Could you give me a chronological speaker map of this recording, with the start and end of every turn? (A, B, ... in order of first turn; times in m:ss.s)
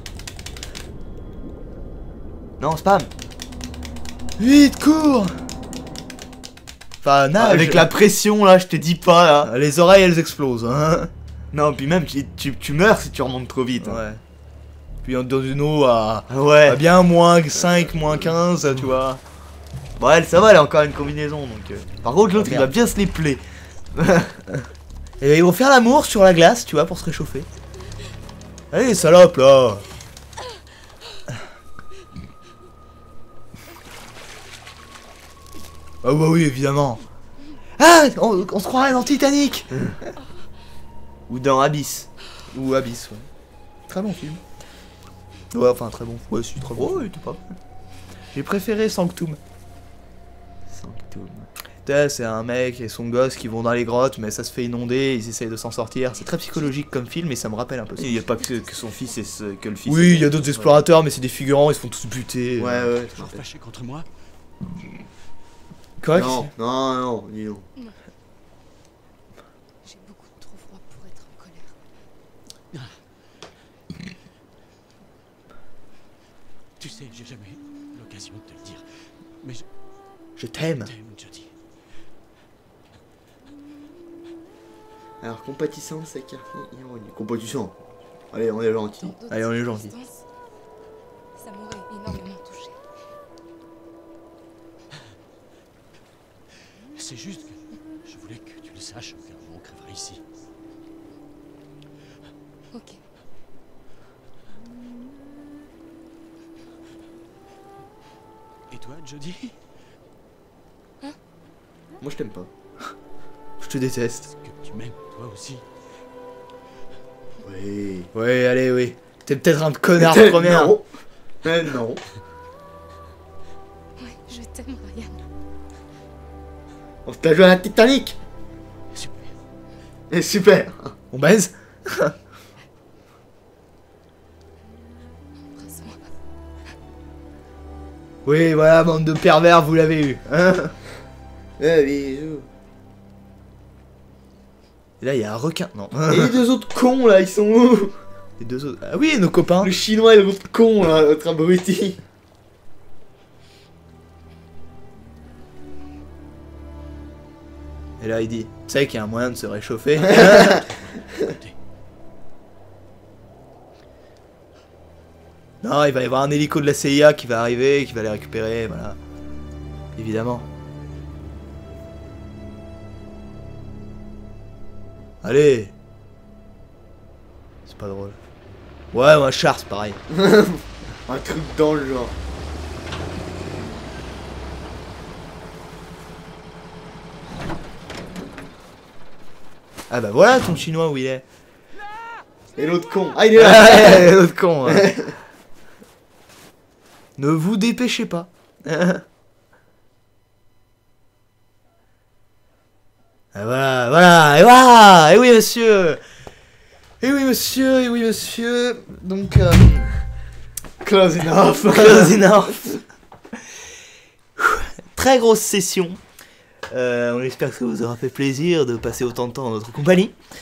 0:02.6-0:03.1 A
0:04.4-0:05.4 B
0:07.0-0:07.9 B
0:07.4-0:09.5 A
0:09.4-0:11.1 B
0:11.5-0:14.0 A
0:13.8-0:14.2 B
0:15.0-0:19.2 B
0:16.3-0:16.8 A
0:20.0-0:23.4 A
0:22.2-0:23.0 B
0:23.9-0:24.4 A
0:25.2-0:27.5 B
0:28.7-0:29.8 B
0:36.0-0:37.0 B
0:37.8-0:39.7 B
0:41.3-0:43.3 B
0:43.9-0:44.4 B
0:45.5-0:47.1 B
0:46.7-0:47.6 A
0:48.3-0:49.4 B
0:50.7-0:51.5 A
0:51.8-0:58.2 B
0:58.0-1:00.8 A
0:58.3-0:58.9 C
0:59.8-1:02.9 B
1:02.6-1:03.4 A
1:03.0-1:04.0 D
1:06.0-1:06.5 B
1:06.1-1:07.7 A
1:09.8-1:11.7 C
1:12.7-1:13.0 D
1:16.8-1:18.8 D
1:19.4-1:19.6 D
1:20.4-1:20.9 B
1:20.7-1:21.5 D
1:25.2-1:27.7 A
1:28.3-1:29.2 A
1:29.0-1:30.2 C
1:29.3-1:29.9 B
1:31.4-1:32.8 C
1:36.9-1:40.2 D
1:42.7-1:43.0 C
1:48.7-1:49.6 D
1:52.0-1:52.5 A
1:53.6-1:54.3 B
1:54.2-1:55.6 D
1:57.4-1:58.1 A
1:58.1-2:00.8 B
2:00.0-2:00.9 A
2:01.4-2:02.0 A
2:04.0-2:05.2 C
2:07.0-2:08.2 A
2:08.9-2:09.4 D
2:10.1-2:11.0 A
2:11.1-2:12.2 B
2:15.5-2:16.1 C
2:18.2-2:20.7 B
2:21.6-2:22.5 A
2:25.0-2:26.4 B
2:26.1-2:28.0 A
2:28.4-2:29.8 B
2:29.6-2:32.0 A
2:38.0-2:40.6 B
2:40.7-2:41.5 D
2:45.6-2:49.0 B
2:49.9-2:50.5 B
2:55.2-2:55.7 B
2:57.6-2:58.2 B
2:58.9-3:00.0 B
3:00.1-3:02.1 A
3:09.9-3:11.2 B
3:12.6-3:15.1 A
3:13.3-3:15.0 B
3:17.2-3:19.0 B
3:23.3-3:26.0 B
3:27.0-3:29.9 B
3:30.8-3:32.8 A
3:31.6-3:32.6 B
3:34.4-3:36.0 B
3:36.7-3:40.2 B